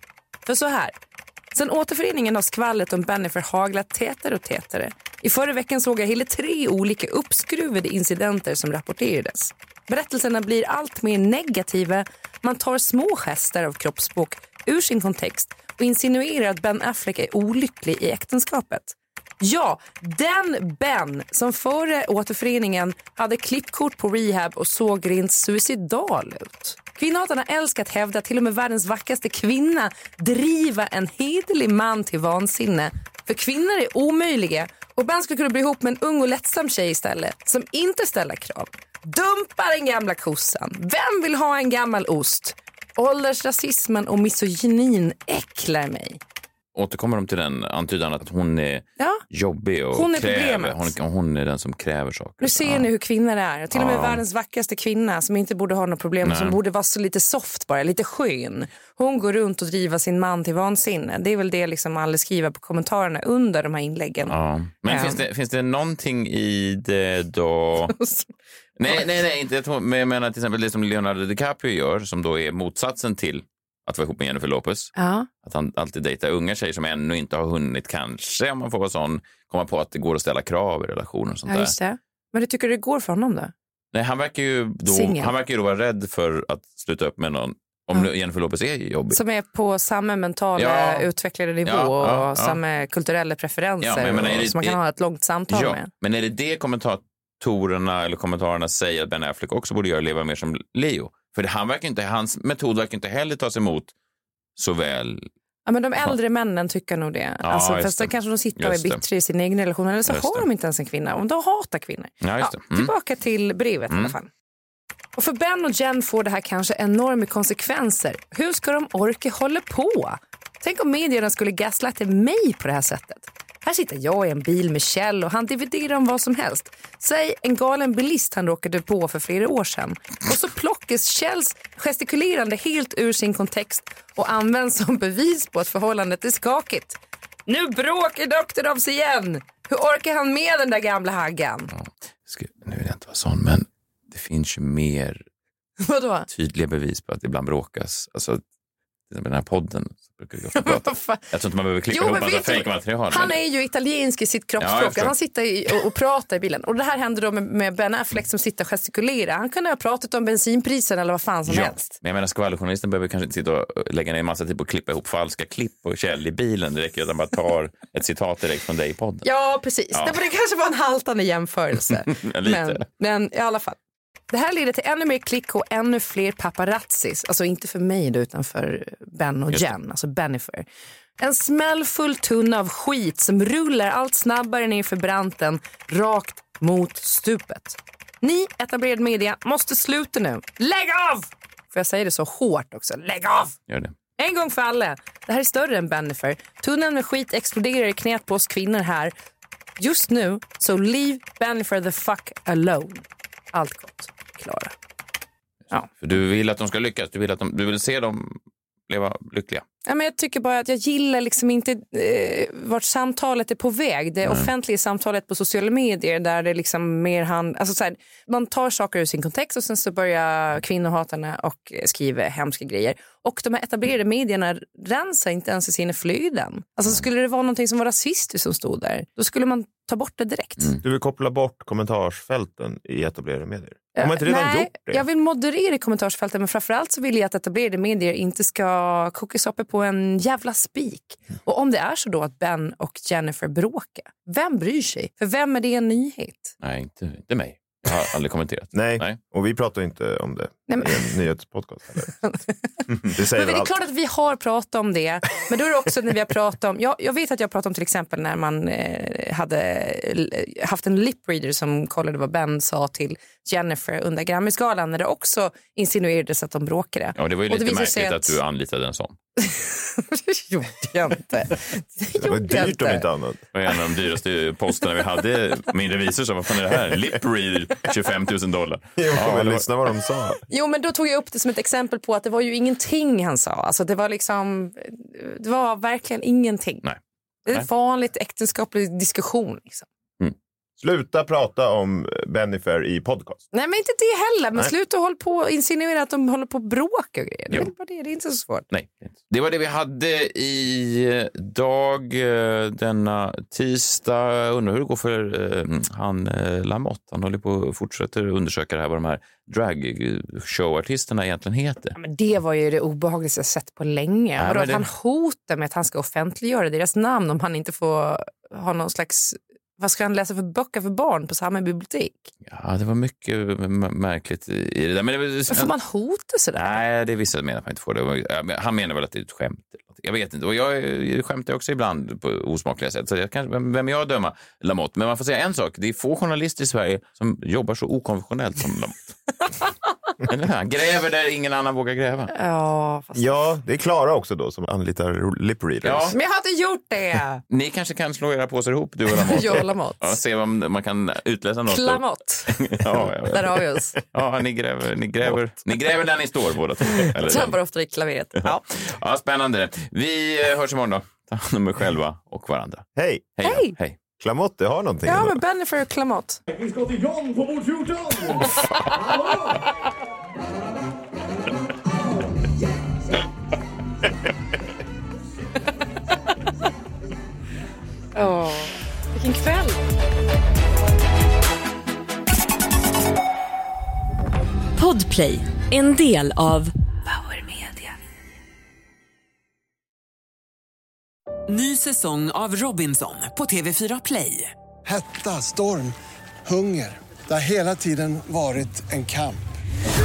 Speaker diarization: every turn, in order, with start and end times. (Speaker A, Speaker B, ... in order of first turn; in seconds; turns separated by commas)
Speaker A: 0.5-0.9, Speaker A: 1.5-46.2, Speaker B: 46.8-52.9, Speaker A: 49.9-50.9, Speaker A: 52.4-64.3, Speaker B: 53.7-54.2, Speaker B: 56.2-56.6, Speaker B: 64.3-68.0, Speaker A: 64.8-65.2, Speaker A: 67.9-68.3, Speaker B: 68.8-81.7, Speaker A: 75.0-75.3, Speaker A: 81.5-83.5, Speaker B: 83.9-89.2, Speaker A: 84.9-85.3, Speaker A: 89.1-95.9, Speaker B: 90.6-91.1, Speaker B: 91.7-92.6, Speaker B: 93.8-94.8, Speaker B: 95.5-103.9, Speaker B: 104.6-105.3, Speaker A: 105.7-114.3, Speaker B: 107.4-109.0, Speaker B: 110.1-110.5, Speaker B: 112.2-112.9, Speaker A: 115.2-141.7, Speaker B: 141.7-145.2, Speaker A: 145.8-146.3, Speaker B: 146.3-148.4, Speaker B: 149.1-153.4, Speaker A: 150.5-151.2, Speaker A: 151.9-161.9, Speaker B: 154.6-155.1, Speaker B: 161.5-169.3, Speaker A: 169.2-173.8, Speaker B: 169.9-170.2, Speaker B: 172.1-172.8, Speaker A: 174.3-180.7, Speaker A: 181.2-193.6, Speaker A: 194.2-199.1, Speaker A: 199.8-204.7, Speaker B: 205.9-209.7, Speaker A: 209.9-230.7, Speaker C: 230.8-235.0, Speaker A: 234.0-246.6, Speaker B: 246.6-249.2, Speaker C: 248.7-252.1, Speaker A: 250.7-251.1, Speaker A: 252.2-268.4, Speaker C: 252.9-253.7, Speaker B: 267.2-269.2, Speaker A: 269.4-273.1, Speaker C: 272.2-273.4, Speaker B: 273.5-279.7, Speaker C: 279.0-280.4, Speaker A: 280.5-286.8, Speaker A: 287.5-289.9, Speaker C: 290.8-293.4, Speaker A: 293.5-298.7, Speaker B: 298.7-312.0, Speaker A: 312.0-322.3, Speaker B: 314.4-314.9, Speaker B: 322.5-325.7, Speaker A: 325.5-326.7, Speaker B: 326.6-339.2, Speaker B: 340.2-342.3, Speaker A: 342.3-343.5, Speaker C: 343.2-346.2, Speaker B: 345.8-346.1, Speaker A: 346.1-347.4, Speaker B: 347.5-357.6, Speaker A: 349.1-350.2, Speaker A: 351.7-352.6, Speaker A: 353.2-354.0, Speaker A: 356.9-358.7, Speaker B: 358.4-364.0, Speaker C: 363.0-363.3, Speaker A: 363.4-363.8, Speaker C: 364.2-365.4, Speaker A: 365.1-366.4, Speaker D: 366.5-369.6, Speaker A: 378.1-379.8, Speaker E: 384.8-386.7, Speaker A: 387.2-387.9, Speaker F: 391.5-394.5, Speaker G: 394.9-399.5